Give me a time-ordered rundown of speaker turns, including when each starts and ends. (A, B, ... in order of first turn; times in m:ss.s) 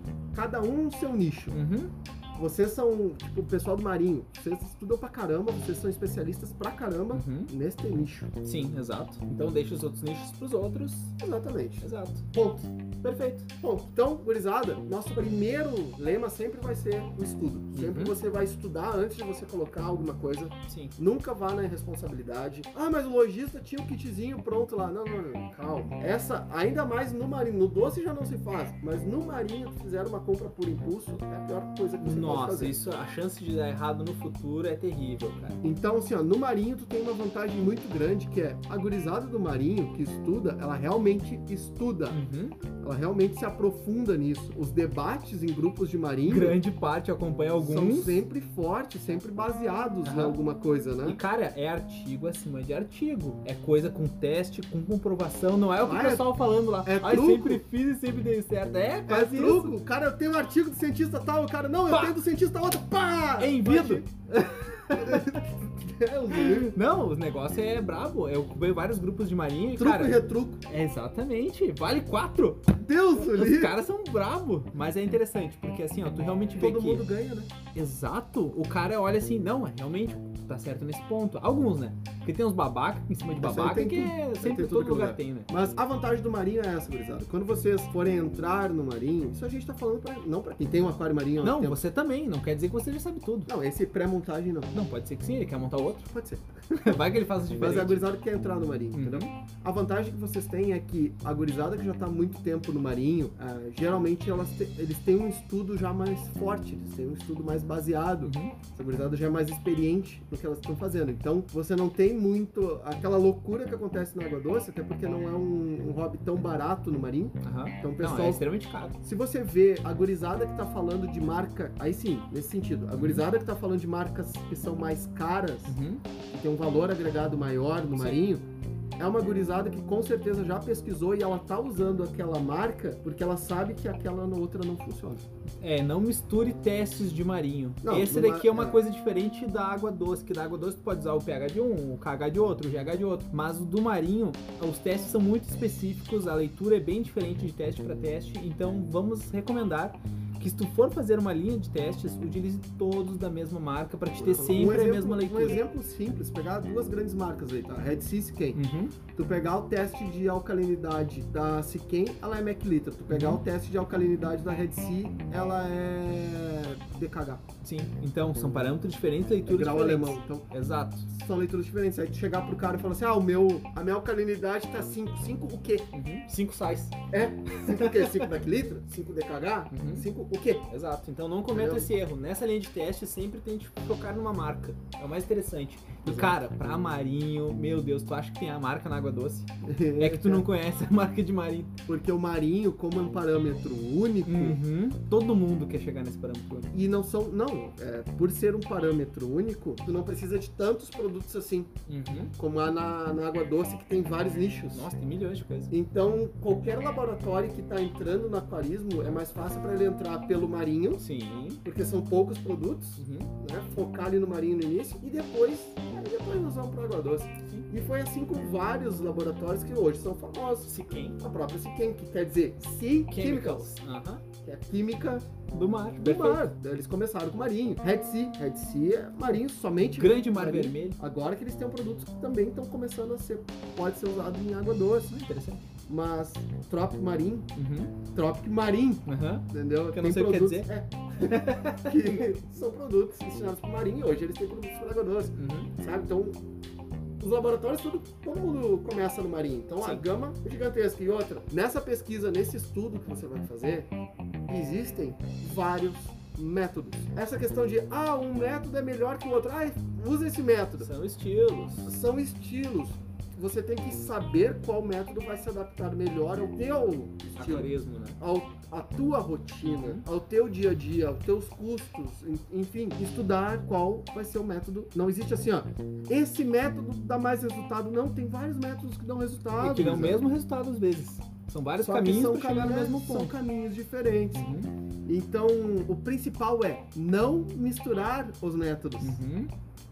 0:00.3-0:01.6 A
0:01.5-0:01.9 B
0:02.4-0:08.3 A
0:07.1-0:07.5 B
0:08.4-0:11.1 B
0:11.2-0:12.7 A
0:11.8-0:12.3 B
0:13.0-0:13.5 B
0:13.6-0:32.8 A
0:17.7-0:18.2 B
0:20.7-0:20.9 B
0:32.0-0:35.6 B
0:35.6-0:42.2 A
0:42.1-0:42.6 B
0:42.8-0:46.6 A
0:46.3-0:48.2 B
0:47.6-0:51.2 A
0:50.0-0:50.4 B
0:51.0-0:59.7 B
0:55.8-0:57.6 A
0:59.1-1:04.1 A
1:01.9-1:02.2 B
1:03.4-1:05.4 B
1:04.9-1:06.7 A
1:06.3-1:17.1 B
1:09.8-1:10.6 A
1:12.8-1:13.8 A
1:16.6-1:17.5 A
1:17.7-1:25.5 B
1:23.4-1:31.8 A
1:31.4-1:33.5 B
1:33.5-1:34.7 A
1:34.7-1:36.1 B
1:36.1-1:37.0 A
1:36.7-1:38.0 B
1:37.6-1:58.4 A
1:38.9-1:39.3 B
1:48.2-1:48.6 B
1:57.4-1:59.0 B
1:59.0-2:05.8 A
2:03.0-2:03.2 B
2:05.7-2:06.0 B
2:06.3-2:08.4 A
2:08.0-2:08.2 B
2:09.0-2:15.3 A
2:15.6-2:35.6 B
2:17.8-2:18.8 A
2:34.2-2:38.6 A
2:38.5-2:39.0 B
2:39.1-2:47.4 A
2:43.1-2:43.4 B
2:47.6-2:51.1 B
2:49.5-2:50.5 A
2:51.1-2:55.9 A
2:55.9-2:57.0 B
2:57.1-3:00.7 A
2:57.6-2:58.3 B
2:59.7-3:00.1 B
3:00.7-3:09.5 B
3:01.5-3:01.9 A
3:06.1-3:06.4 A
3:09.6-3:10.5 A
3:10.0-3:11.8 B
3:11.9-3:14.6 A
3:14.3-3:16.7 B
3:16.7-3:21.7 A
3:21.9-3:22.3 B
3:22.4-3:24.9 A
3:24.7-3:25.7 B
3:25.7-3:31.0 A
3:31.0-3:31.6 B
3:31.6-3:43.8 A
3:33.0-3:33.3 B
3:40.7-3:41.2 B
3:43.1-3:44.2 B
3:44.4-3:45.3 A
3:45.5-3:46.5 B
3:46.0-3:55.1 A
3:50.0-3:51.0 B
3:55.1-3:55.7 B
3:55.9-3:57.5 A
3:57.6-3:57.9 B
3:58.1-4:06.4 A
3:59.1-4:02.3 B
4:05.4-4:05.7 B
4:07.2-4:13.9 A
4:14.5-4:20.9 A
4:20.8-4:21.9 B
4:21.8-4:40.2 A
4:27.4-4:28.2 B
4:29.6-4:30.0 B
4:39.6-4:43.3 B
4:41.8-4:44.5 A
4:44.3-4:44.7 B
4:45.1-4:49.2 A
4:49.0-4:49.5 B